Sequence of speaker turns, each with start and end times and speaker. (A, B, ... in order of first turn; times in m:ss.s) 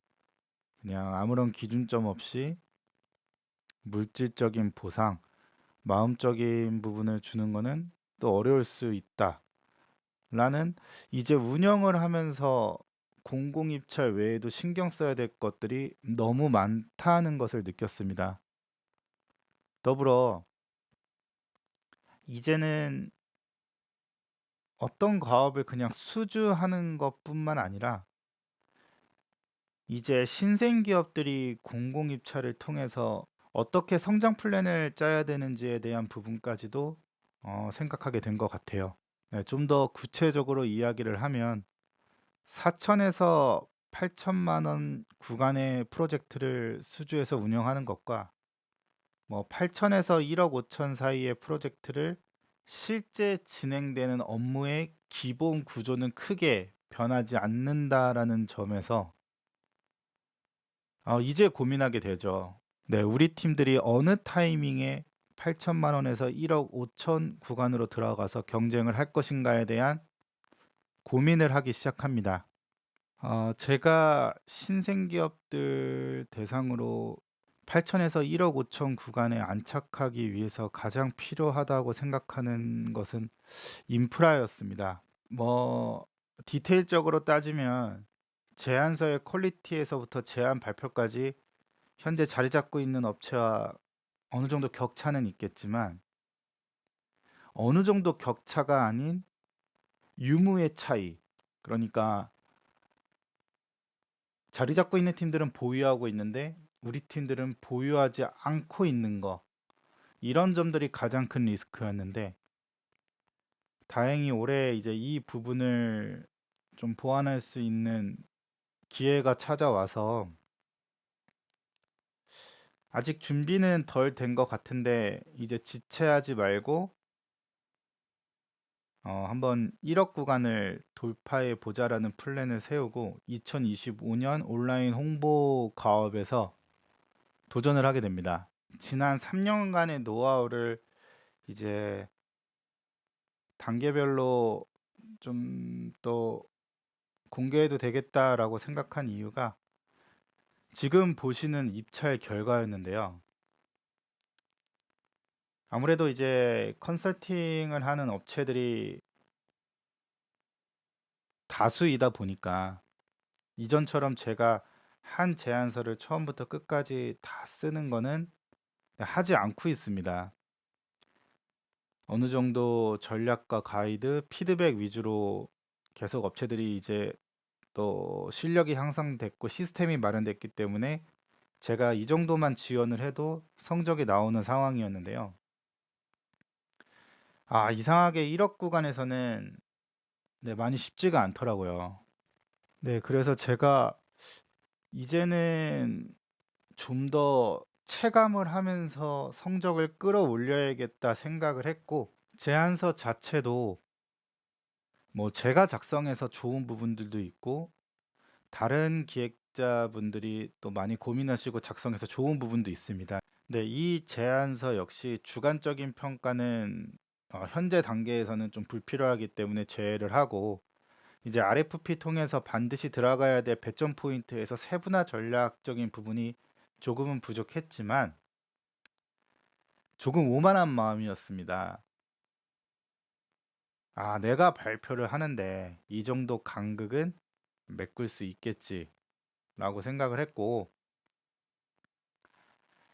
0:00.8-0:02.6 A
0:03.8-0:05.2 A
0:05.8-0:09.4 A
0:10.3-0:18.4 A
0:19.8-0:20.4 A
0:22.2-0:23.1 A
0:24.8-0:28.1 A
0:29.9-0:41.6 A
0:42.5-0:48.3 A
0:49.3-0:59.1 A
1:01.0-1:10.0 A
1:11.0-1:12.4 A
1:13.2-1:31.4 A
1:32.0-1:33.8 A
1:34.3-1:36.0 A
1:37.5-1:39.2 A
1:40.2-1:42.3 A
1:44.5-1:49.4 A
1:50.2-1:52.4 A
1:53.9-1:58.2 A
1:58.9-2:00.3 A
2:02.9-2:06.9 A
2:09.0-2:16.5 A
2:17.5-2:20.8 A
2:21.5-2:22.1 A
2:23.6-2:24.7 A
2:25.2-2:26.5 A
2:27.3-2:29.6 A
2:30.7-2:33.2 A
2:35.7-2:39.0 A
2:41.5-2:42.8 A
2:43.6-2:48.3 A
2:49.0-2:50.3 A
2:52.1-2:57.2 A
2:57.7-3:01.0 A
3:01.6-3:05.3 A
3:07.5-3:09.6 A
3:10.4-3:12.0 A
3:12.8-3:14.0 A
3:14.9-3:16.1 A
3:16.7-3:23.8 A
3:25.1-3:27.7 A
3:28.5-3:40.6 A
3:41.2-3:48.2 A
3:50.0-3:51.8 A
3:54.0-3:57.2 A
3:57.7-3:58.9 A
3:59.6-4:00.7 A